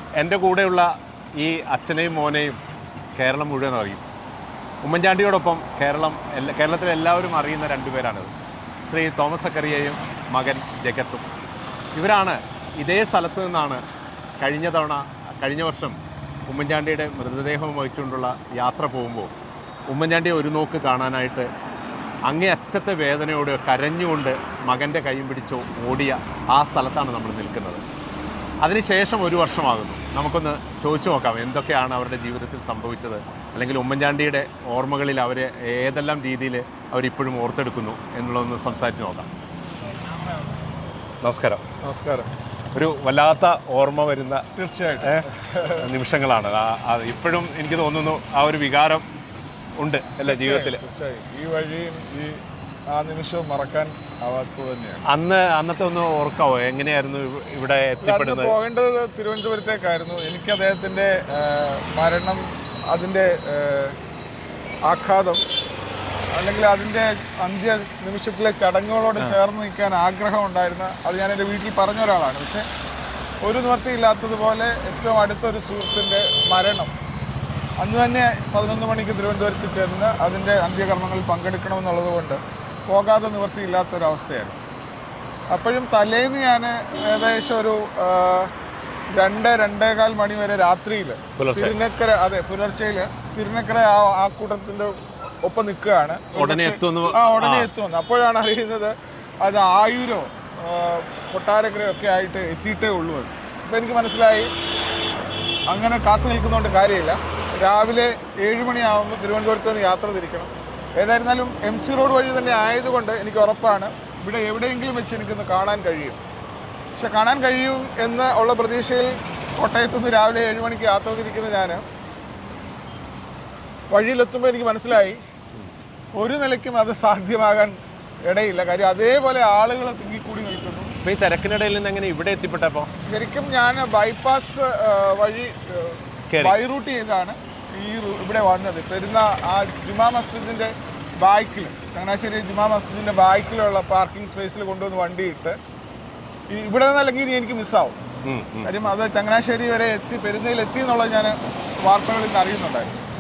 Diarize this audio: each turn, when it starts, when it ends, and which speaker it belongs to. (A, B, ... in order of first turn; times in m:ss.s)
0:00.2-0:02.6 A
0:03.2-0:04.0 A
0:04.8-0:08.3 A
0:08.9-0:11.3 A
0:11.9-0:13.8 A
0:14.4-0:19.3 A
0:19.9-0:21.5 A
0:22.2-0:27.8 A
0:28.6-0:39.3 A
0:41.2-0:41.6 A
0:41.8-0:42.3 B
0:42.7-0:44.5 A
0:44.6-0:45.9 B
0:45.0-0:49.0 A
0:49.8-0:50.8 A
0:50.2-0:55.0 B
0:55.0-0:58.6 A
0:58.0-1:04.0 B
1:04.8-1:05.4 B
1:06.3-1:12.6 B
1:13.4-1:16.9 B
1:17.8-1:24.6 B
1:25.5-1:28.5 B
1:29.1-1:44.5 B
1:31.4-1:31.8 A
1:36.3-1:37.7 A
1:45.7-1:56.2 B
1:57.0-2:01.8 B
2:03.9-2:05.2 B
2:06.1-2:10.9 B
2:11.0-2:12.9 A
2:13.0-2:25.6 B
2:16.3-2:16.6 A
2:26.5-2:28.0 B
2:28.2-2:28.7 A
2:28.6-2:33.0 B